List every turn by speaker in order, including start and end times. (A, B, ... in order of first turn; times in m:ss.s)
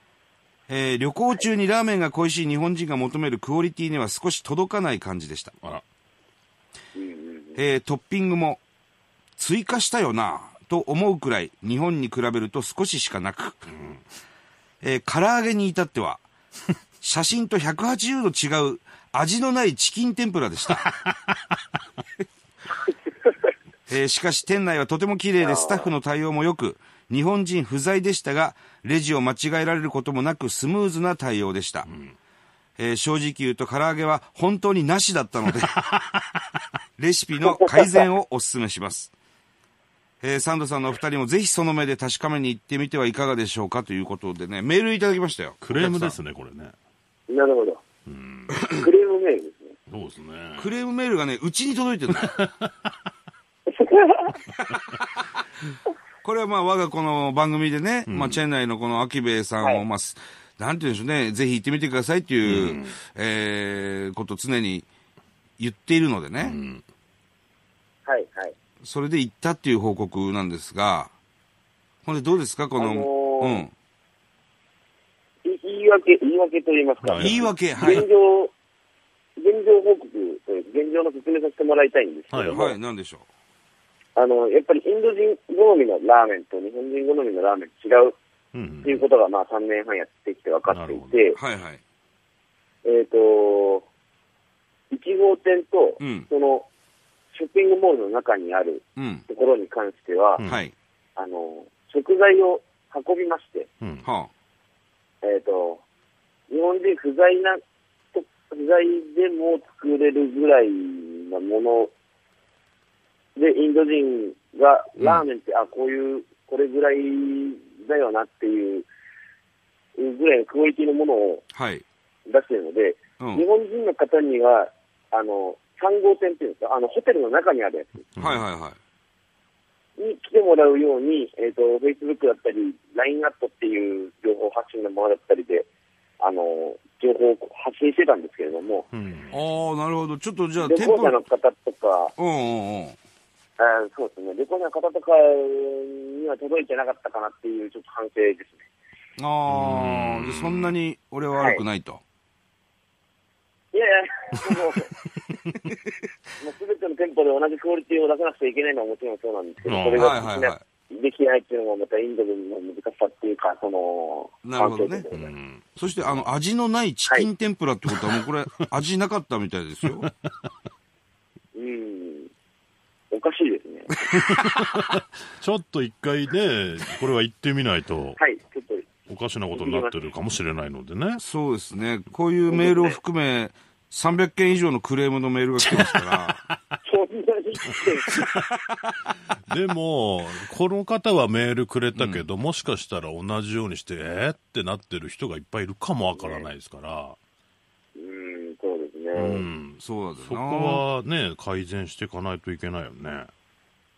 0:00.7-0:05.6 A
0:07.0-0:07.6 B
0:07.6-0:08.6 A
0:09.4-0:13.6 A
0:13.7-0:14.0 C
0:14.8-0:16.2 A
0:17.0-0:20.8 A
0:20.7-0:21.4 C
0:23.9-0:31.9 A
0:25.4-0:25.9 B
0:31.9-0:32.1 C
0:32.8-0:35.9 A
0:37.0-0:39.1 A
0:37.5-0:38.0 B
0:40.2-0:46.2 A
0:45.6-0:46.7 C
0:47.3-0:47.8 B
0:48.1-0:48.6 C
0:48.7-0:49.8 B
0:49.9-0:50.7 C
0:50.6-0:52.4 A
0:52.1-0:52.9 C
0:53.7-0:54.4 B
0:56.2-1:04.9 A
0:58.1-0:58.4 C
1:02.4-1:03.0 C
1:05.6-1:06.6 A
1:06.4-1:06.8 C
1:08.1-1:08.5 B
1:08.8-1:11.1 A
1:12.0-1:13.7 A
1:12.8-1:13.7 B
1:15.4-1:18.5 B
1:17.0-1:18.0 C
1:17.2-1:18.1 A
1:19.4-1:22.8 B
1:22.3-1:22.7 C
1:22.5-1:23.3 A
1:24.2-1:28.2 B
1:28.5-1:29.1 C
1:28.8-1:31.4 B
1:30.7-1:31.4 C
1:31.4-1:31.8 A
1:32.8-1:33.9 B
1:34.9-1:36.7 B
1:36.0-1:36.3 A
1:37.3-1:40.4 B
1:39.0-1:39.2 A
1:40.4-1:40.7 A
1:41.2-1:43.7 B
1:43.8-1:44.1 C
1:44.0-1:44.3 A
1:45.2-1:45.8 B
1:46.5-1:47.6 B
1:48.1-1:51.9 B
1:53.4-1:58.9 B
2:00.0-2:01.4 B
2:01.5-2:01.8 A
2:02.3-2:08.1 B
2:03.2-2:03.4 A
2:08.2-2:08.4 C
2:08.2-2:08.8 A
2:10.0-2:15.7 B
2:16.2-2:18.9 B
2:18.9-2:19.4 C
2:19.3-2:21.2 A
2:20.6-2:22.1 B
2:22.2-2:23.0 A
2:23.6-2:28.6 B
2:29.2-2:32.0 A
2:29.5-2:30.8 C
2:31.4-2:31.6 B
2:33.7-2:35.0 B
2:36.4-2:45.3 B
2:39.6-2:40.2 C
2:40.0-2:40.6 A
2:44.4-2:45.0 A
2:45.1-2:46.3 C
2:45.8-2:50.1 A
2:49.8-2:50.1 C
2:51.6-2:52.3 B
2:53.1-2:53.9 B
2:54.1-2:58.2 C
2:58.2-2:58.9 B
2:59.1-3:01.2 C
2:59.5-3:00.0 B
3:01.2-3:06.4 A
3:02.5-3:03.0 B
3:05.6-3:06.8 C
3:06.8-3:08.2 B
3:07.7-3:08.4 C
3:09.5-3:17.2 C
3:11.9-3:12.2 A
3:16.2-3:16.5 B
3:18.0-3:19.5 B
3:19.2-3:23.3 C
3:19.8-3:20.8 A